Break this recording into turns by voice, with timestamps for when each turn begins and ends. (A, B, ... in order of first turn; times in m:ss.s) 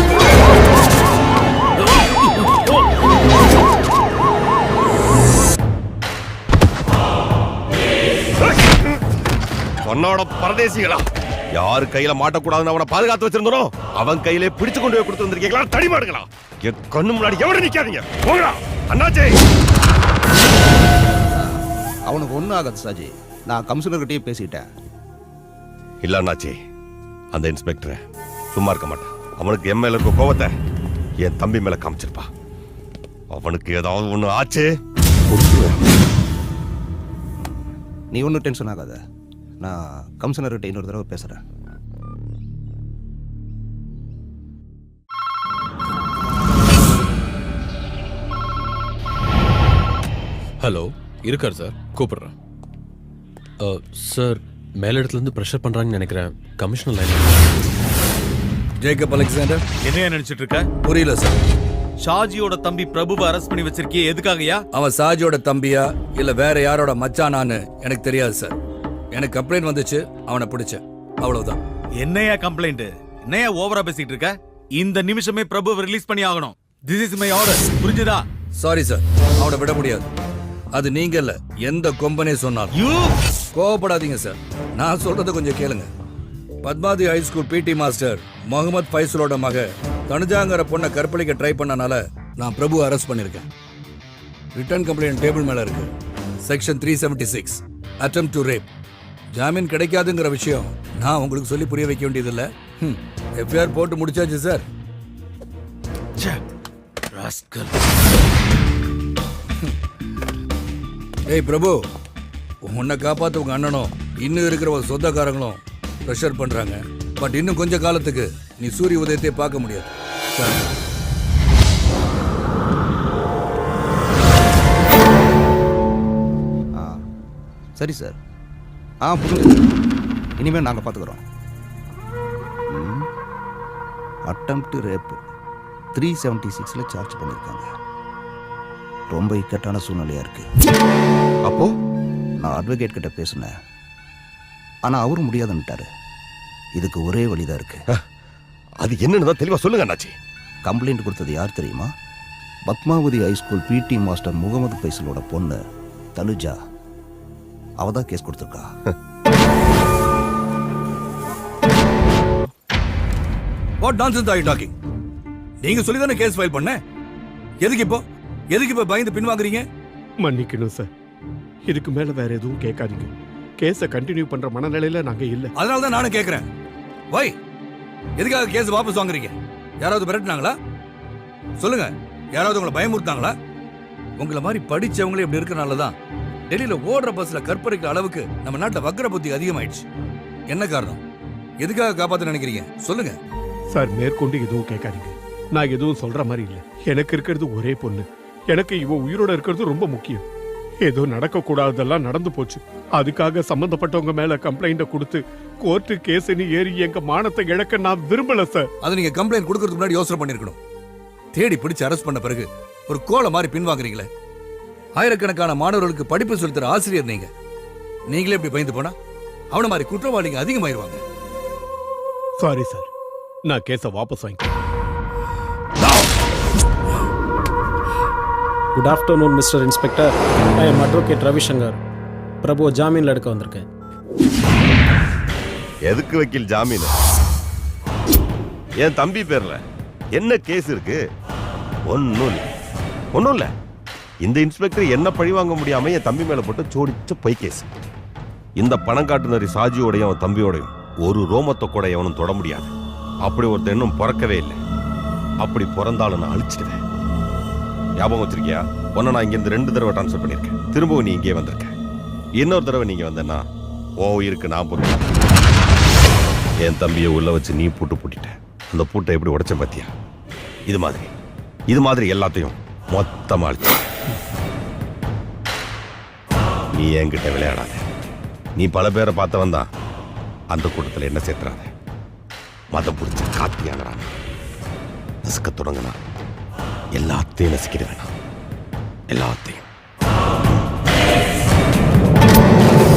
0:08.5-0:09.0 A
0:09.8-0:19.4 A
0:21.3-0:24.6 B
0:26.0-0:26.6 A
0:27.3-0:28.0 A
0:28.5-0:30.5 A
0:31.2-0:32.3 A
0:33.3-0:34.7 A
0:35.3-0:35.8 A
0:37.4-0:39.0 B
0:39.6-0:41.4 B
0:50.6-0:52.3 C
0:53.6-0:57.5 C
0:58.8-0:59.6 D
0:59.8-1:00.7 E
1:00.8-1:01.4 D
1:02.0-1:04.6 E
1:04.7-1:08.6 D
1:09.1-1:11.6 D
1:12.0-1:18.3 E
1:18.6-1:20.1 D
1:20.7-1:22.7 D
1:22.7-1:23.2 E
1:23.6-1:25.9 D
1:26.6-1:33.5 D
1:34.6-1:35.9 D
1:36.4-1:38.7 D
1:39.3-1:44.7 D
1:47.1-1:47.7 E
1:51.3-1:51.8 D
1:52.6-2:00.7 D
2:07.8-2:08.2 B
2:09.1-2:09.7 B
2:10.4-2:11.2 B
2:12.7-2:13.1 B
2:14.3-2:15.2 B
2:15.9-2:17.7 B
2:19.1-2:20.5 B
2:21.4-2:21.7 A
2:22.4-2:23.5 B
2:24.8-2:25.9 B
2:26.8-2:27.8 B
2:28.8-2:30.2 A
2:30.7-2:31.9 B
2:32.7-2:35.6 B
2:36.2-2:36.6 B
2:37.8-2:38.7 B
2:43.8-2:44.7 D
2:45.6-2:46.8 D
2:47.6-2:49.6 D
2:50.2-2:50.9 F
2:51.7-2:55.5 F
2:55.6-2:56.5 D
2:57.1-2:57.4 D
2:58.2-3:00.6 D
3:01.6-3:03.4 D
3:04.2-3:06.0 D
3:06.5-3:09.8 D
3:10.5-3:11.0 D
3:11.6-3:13.2 D
3:13.7-3:20.2 F
3:20.8-3:28.7 F
3:28.8-3:30.6 D
3:31.3-3:34.1 D
3:35.0-3:37.3 D
3:38.1-3:39.0 D
3:39.5-3:41.0 D
3:42.4-3:42.9 F
3:43.4-3:44.5 F
3:48.8-3:51.8 G
3:52.4-3:53.6 G
3:55.9-3:56.9 A
3:58.8-3:59.6 A
4:00.1-4:01.0 A
4:01.9-4:02.5 A
4:03.1-4:03.5 A
4:04.2-4:07.7 A
4:08.6-4:12.7 A
4:13.2-4:14.6 A
4:15.4-4:16.8 A
4:18.0-4:21.7 A
4:22.4-4:23.4 A
4:24.0-4:25.1 A
4:26.6-4:29.9 A
4:30.7-4:31.1 A
4:31.7-4:33.8 A
4:36.7-4:37.8 A
4:38.6-4:39.7 A
4:40.5-4:41.7 A
4:42.7-4:44.1 A
4:45.2-4:46.0 A
4:47.0-4:48.1 A
4:49.1-4:49.7 A